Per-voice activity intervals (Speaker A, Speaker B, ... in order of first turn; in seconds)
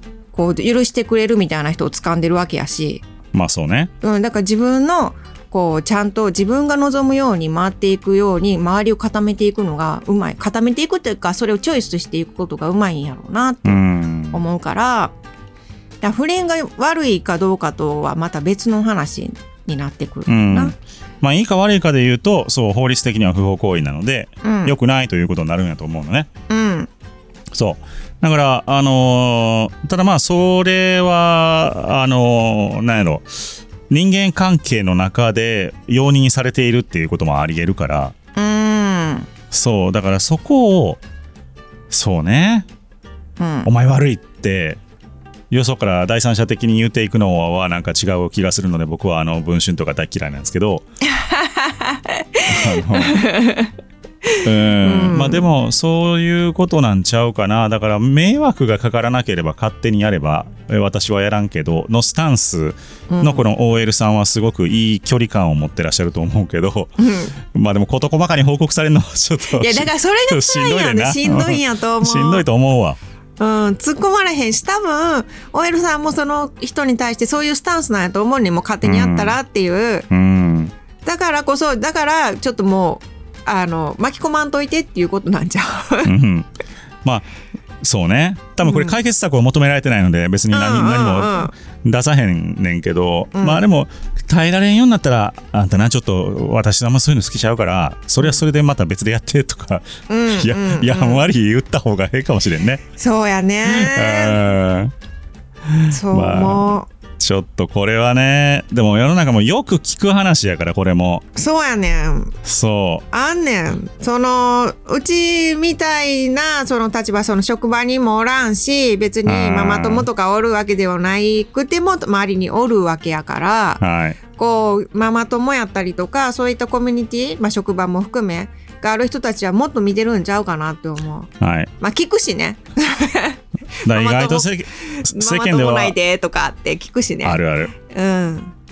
Speaker A: 0.3-3.0, 4.0-15.2, 16.0-20.7, 24.4-24.8, 26.5-26.9, 38.4-39.3, 43.4-43.7, 51.1-53.7, 54.3-55.5, 63.1-63.5, 67.0-67.4, 69.5-72.5, 73.4-80.1, 81.0-86.1, 88.6-89.0, 90.5-91.5, 93.3-93.6, 100.1-101.2, 103.0-104.4, 105.9-106.9, 111.4-112.3, 113.1-123.8, 124.4-138.5
Speaker B: 3.3-3.9, 13.7-14.4, 20.3-26.3, 27.5-38.1, 39.5-41.0, 41.9-42.7, 43.6-44.8, 45.5-50.8, 52.5-53.2, 54.4-67.0, 67.5-73.0, 78.8-79.4, 80.1-80.7, 86.0-86.5, 87.8-102.8, 103.7-104.9, 105.7-111.2, 112.5-113.0, 119.3-120.1, 123.8-124.2, 131.4-131.7, 133.8-136.0, 137.2-137.7